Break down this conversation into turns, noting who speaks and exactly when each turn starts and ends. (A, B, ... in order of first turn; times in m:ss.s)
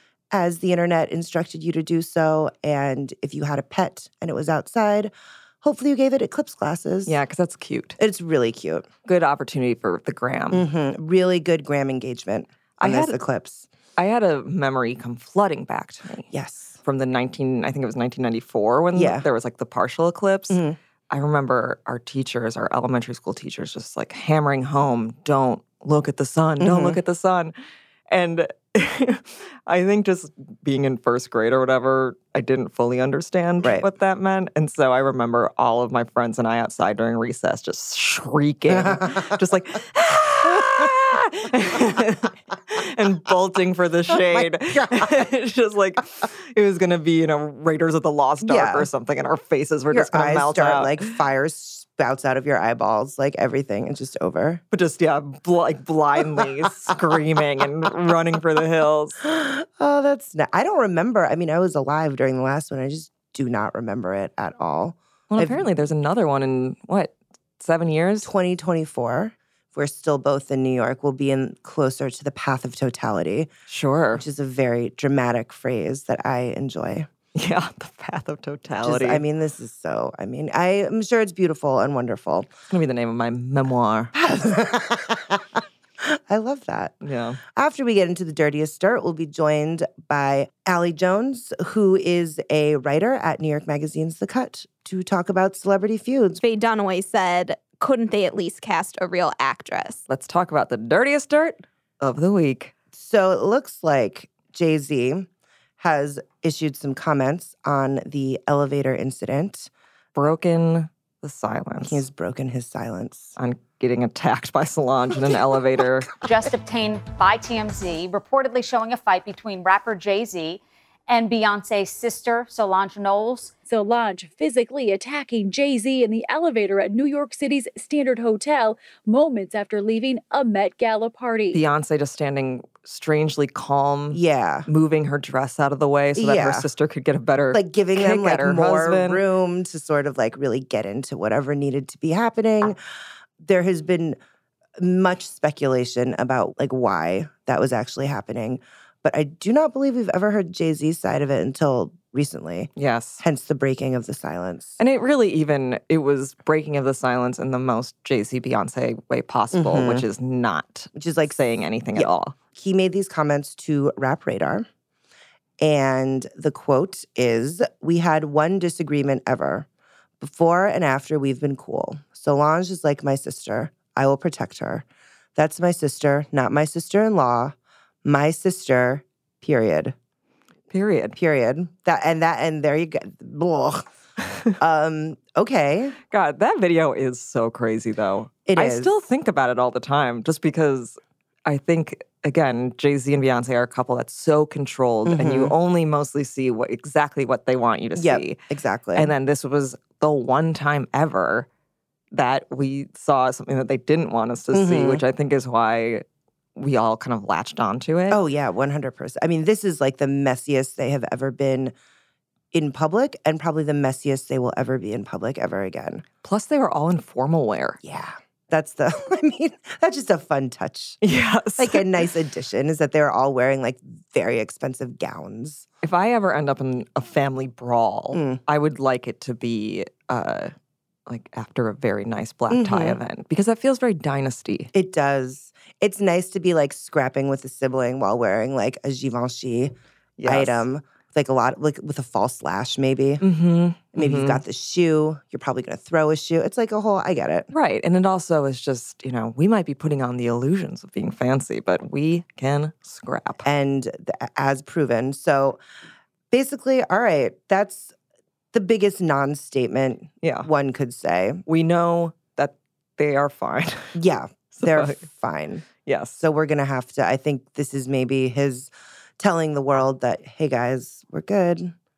0:00.3-0:07.2 A
0:07.1-0:08.0 B
0:08.0-0:08.9 A
0:09.1-0:10.6 B
0:10.5-0:13.7 A
0:12.8-0:13.2 B
0:14.0-0:16.3 B
0:16.3-0:16.8 A
0:16.8-0:27.5 B
0:18.9-0:19.3 A
0:20.5-0:20.8 A
0:26.6-0:27.0 A
0:28.1-0:51.2 B
0:33.6-0:33.9 A
0:38.7-0:39.4 A
0:44.1-0:45.1 A
0:48.4-0:48.9 A
0:49.9-0:54.6 A
0:54.7-0:59.2 B
0:59.2-1:05.7 A
1:05.3-1:08.3 B
1:08.2-1:13.5 A
1:13.7-1:14.2 B
1:14.2-1:17.1 A
1:17.4-1:19.2 B
1:18.8-1:22.5 A
1:22.7-1:24.1 B
1:24.1-1:27.0 A
1:27.0-1:27.4 B
1:27.5-1:36.4 A
1:36.4-1:40.0 C
1:40.1-1:42.7 B
1:42.9-1:45.3 A
1:45.8-1:49.7 A
1:50.2-1:52.0 B
1:51.8-1:53.4 A
1:53.4-1:56.1 B
1:56.2-2:03.5 D
2:03.7-2:11.6 E
2:11.5-2:19.2 B
2:14.1-2:14.7 A
2:16.2-2:16.7 A
2:17.5-2:22.8 A
2:23.4-2:24.2 A
2:24.8-2:34.8 A
2:32.8-2:33.2 B
2:34.8-2:42.4 B
2:39.5-2:40.1 A
2:41.0-2:41.4 A
2:42.0-2:44.7 A
2:45.6-2:49.7 A
2:50.2-2:54.8 A
2:55.4-3:00.0 A
3:00.7-3:01.2 B
3:01.2-3:03.9 A
3:04.6-3:06.0 A
3:06.1-3:18.4 B
3:08.5-3:08.9 A
3:15.1-3:15.6 A
3:18.0-3:19.1 A
3:19.0-3:21.5 B
3:22.1-3:26.0 B
3:24.5-3:25.0 A
3:26.6-3:28.2 B
3:28.1-3:31.7 A
3:32.5-3:36.0 A
3:36.2-3:37.8 B
3:37.8-3:41.0 A
3:41.0-3:41.9 B
3:41.6-3:45.7 A
3:45.8-3:50.5 B
3:48.1-3:48.4 A
3:51.1-3:54.7 B
3:52.5-3:53.0 A
3:54.7-4:03.2 A
4:00.2-4:00.7 B
4:03.2-4:04.4 B
4:03.9-4:07.5 A
4:07.5-4:13.4 B
4:13.4-4:15.6 A
4:16.3-4:17.9 A
4:18.5-4:21.4 A
4:20.2-4:20.5 B
4:21.5-4:24.0 B
4:24.0-4:25.7 A
4:24.5-4:25.0 B
4:25.8-4:26.2 B
4:26.2-4:31.7 A